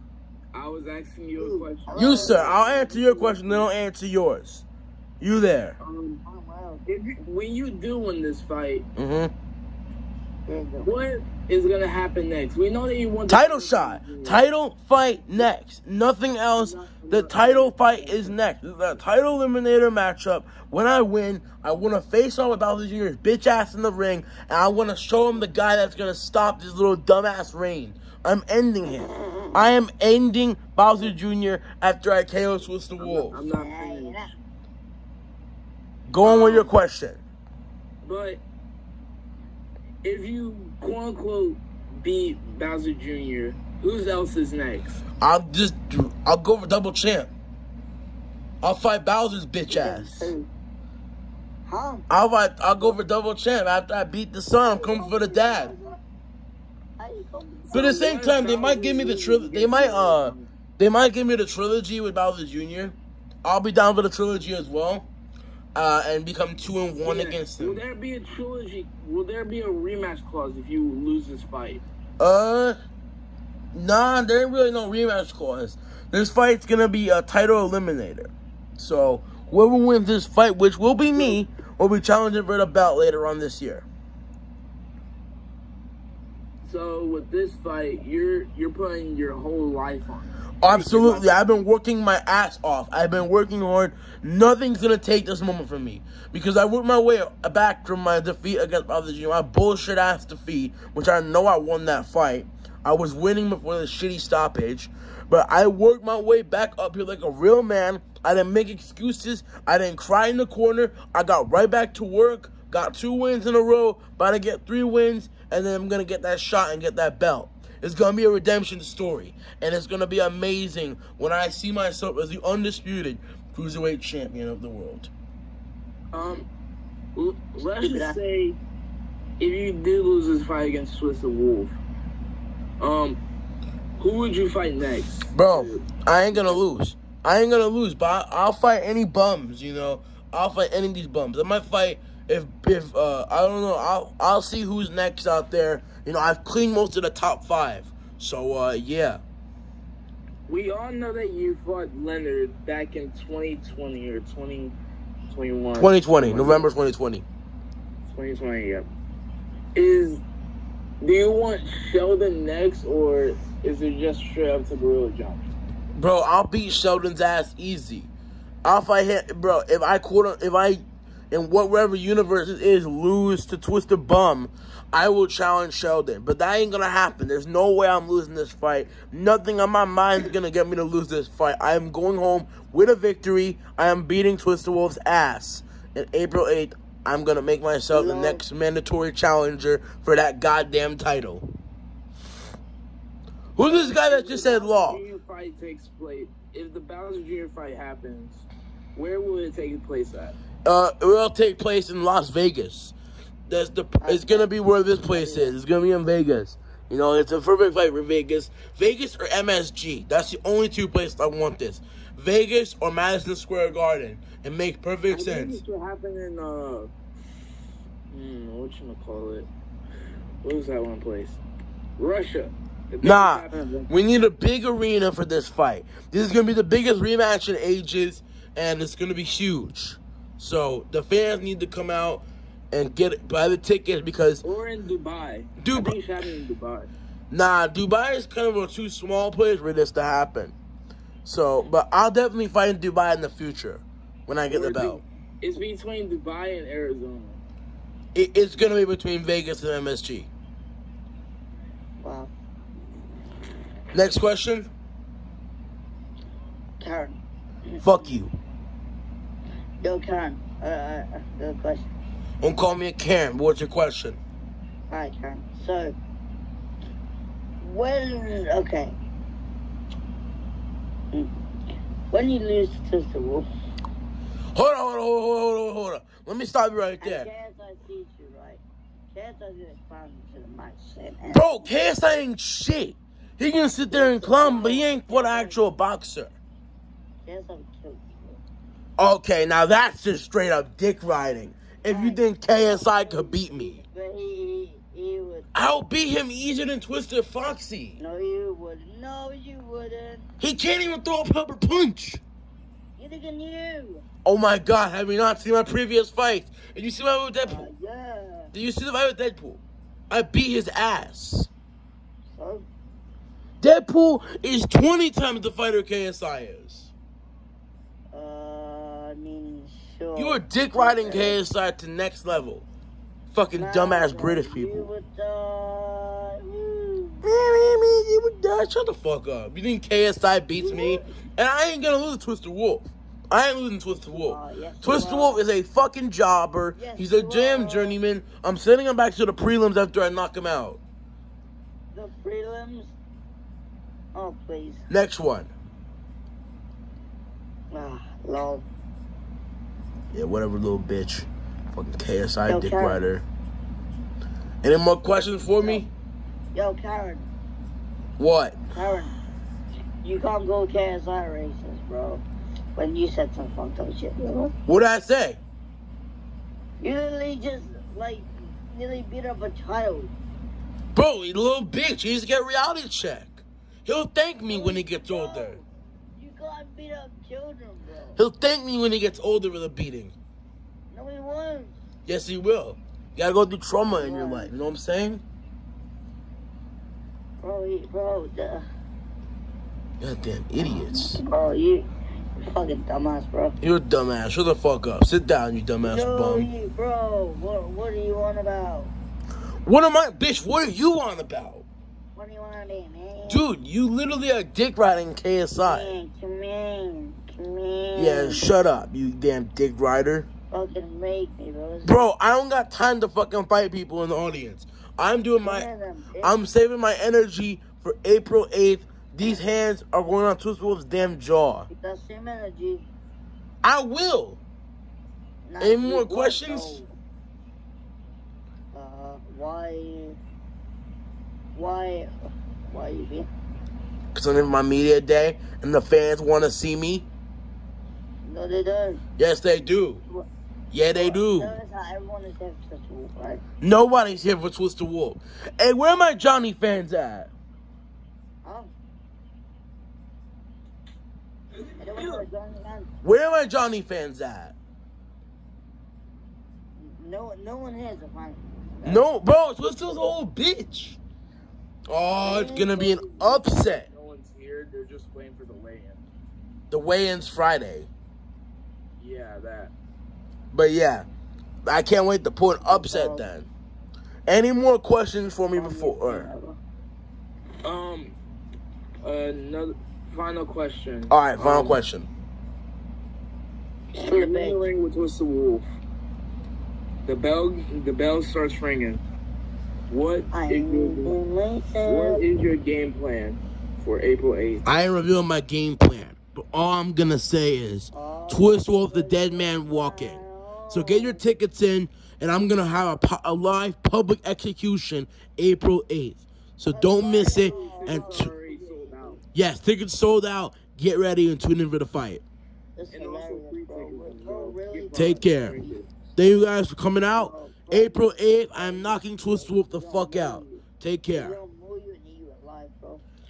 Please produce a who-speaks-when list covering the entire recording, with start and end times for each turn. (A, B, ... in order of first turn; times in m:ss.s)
0:00.5-0:02.6 A
0:01.4-0:03.7 B
0:01.9-0:04.6 C
0:05.2-0:05.8 C
0:05.8-0:06.2 A
0:06.2-0:06.8 B
0:06.9-0:08.8 A
0:09.0-0:09.3 C
0:10.5-0:10.9 B
0:10.8-0:14.4 A
0:13.3-0:33.4 C
0:16.5-0:18.4 A
0:33.0-0:34.3 A
0:33.5-0:34.3 B
0:36.1-0:37.2 C
0:36.2-0:36.7 A
0:38.0-0:38.4 A
0:40.0-0:45.0 A
0:45.2-0:47.3 C
0:48.6-0:50.3 C
0:49.7-0:50.5 B
0:51.6-0:52.0 B
0:52.1-0:55.7 C
0:54.6-0:56.0 B
0:57.0-0:58.1 B
0:57.7-1:00.5 A
0:57.7-1:05.1 C
1:05.7-1:07.8 C
1:07.0-1:11.8 A
1:12.2-1:12.8 C
1:13.7-1:23.8 C
1:26.6-1:31.6 A
1:30.6-2:05.1 C
2:06.1-2:06.4 A
2:07.1-2:08.6 A
2:07.7-2:08.2 B
2:09.4-2:11.8 A
2:12.8-2:13.2 A
2:14.0-2:16.6 A
2:15.3-2:29.2 C
2:30.5-2:34.7 A
2:35.3-2:36.7 A
2:35.8-2:37.2 C
2:38.1-2:38.9 A
2:39.7-2:40.2 A
2:41.0-2:45.5 A
2:45.9-2:48.1 C
2:48.6-3:11.5 C
3:07.9-3:08.4 B
3:13.6-3:15.0 C
3:13.6-3:20.3 A
3:20.6-3:22.9 C
3:23.5-3:35.6 C
3:24.0-3:25.5 B
3:35.1-3:36.9 A
3:38.1-3:39.5 A
3:40.4-3:41.4 A
3:42.0-3:43.9 A
3:43.0-3:54.4 C
3:54.4-3:56.9 A
3:55.6-3:56.0 C
3:57.3-4:00.5 C
4:01.2-4:05.0 C
4:04.5-4:07.4 A
4:08.1-4:10.3 C
4:12.0-4:12.3 B
4:13.9-4:14.7 C
4:16.8-4:17.8 B
4:17.8-4:18.3 C
4:19.8-4:21.9 B
4:22.4-4:24.2 C
4:24.9-4:25.9 B
4:27.6-4:29.0 B
4:32.1-4:33.5 B
4:34.5-4:37.3 C
4:37.0-4:38.6 B
4:39.1-4:41.6 B
4:41.3-4:46.3 C
4:43.9-4:45.6 B
4:47.2-4:48.4 B
4:49.0-4:53.8 C
4:51.9-4:55.5 B
4:55.5-4:58.0 C
4:58.0-5:00.3 B
5:00.4-5:02.2 C
5:03.0-5:04.0 B
5:04.2-5:07.7 C
5:07.4-5:08.5 B
5:08.5-5:11.5 C
5:12.3-5:12.6 B
5:13.6-5:16.9 C
5:18.1-5:21.4 B
5:20.2-5:22.6 C
5:23.3-5:24.9 C
5:23.5-5:27.2 B
5:27.2-5:40.8 C
5:30.6-5:31.1 B
5:34.1-5:35.4 B
5:36.8-5:38.0 B
5:41.9-5:42.9 B
5:44.1-5:44.8 B
5:44.9-5:45.5 C
5:47.7-5:48.6 B
5:50.1-5:53.2 C
5:52.4-5:53.0 B
5:54.6-5:55.9 C
5:56.5-5:57.3 B
5:58.2-5:58.6 C
5:58.7-5:59.1 B
6:00.0-6:02.2 B
6:02.8-6:04.5 B
6:04.7-6:05.4 C
6:06.8-6:10.1 B
6:10.9-6:15.6 C
6:14.5-6:15.6 B
6:16.2-6:18.2 B
6:18.2-6:20.2 C
6:20.9-6:21.7 B
6:22.1-6:25.2 C
6:23.9-6:24.5 B
6:27.4-6:28.6 B
6:30.0-6:31.2 C
6:30.6-6:31.9 B
6:32.4-6:33.6 B
6:33.6-6:36.5 C
6:35.8-6:38.9 B
6:39.6-6:41.6 C
6:42.1-6:43.5 B
6:43.3-6:45.9 C
6:45.6-6:48.4 B
6:47.9-6:50.2 C
6:50.5-6:52.1 B
6:51.8-6:55.7 C
6:55.4-6:56.4 B
6:56.2-7:01.7 C
7:01.7-7:02.8 B
7:03.6-7:04.4 C
7:05.5-7:06.9 B
7:05.6-7:06.8 C
7:08.7-7:10.2 B
7:11.5-7:12.1 B
7:12.7-7:13.3 B
7:14.1-7:17.1 C
7:18.2-7:19.0 B
7:19.2-7:20.0 C
7:20.7-7:21.6 C
7:20.9-7:23.4 B
7:23.6-7:27.3 C
7:25.9-7:26.1 B
7:28.4-7:28.7 B
7:31.8-7:32.9 B
7:33.0-7:34.5 C
7:36.8-7:39.1 B
7:38.8-7:41.0 C
7:41.9-7:43.9 C
7:42.1-7:43.0 B
7:42.4-7:46.0 A
7:46.7-7:47.9 C
7:49.0-7:49.7 A
7:50.5-7:51.1 C
7:51.6-7:53.5 C
7:52.6-7:53.3 B
7:54.3-7:56.3 C
7:55.5-7:56.6 B
7:57.6-7:58.2 A
7:59.0-8:01.8 A
8:01.1-8:02.1 C
8:03.9-8:04.7 B
8:04.0-8:05.7 A
8:07.0-8:09.0 A
8:09.9-8:11.2 A
8:10.3-8:12.2 B
8:11.8-8:14.6 A
8:14.6-8:28.3 C
8:17.9-8:21.2 B
8:26.7-8:29.2 B
8:27.0-8:29.2 A
8:29.3-8:32.2 C
8:32.8-8:35.8 B
8:32.9-8:35.9 A
8:34.9-8:35.6 C
8:36.2-8:41.4 C
8:37.1-8:40.6 B
8:41.1-8:43.0 B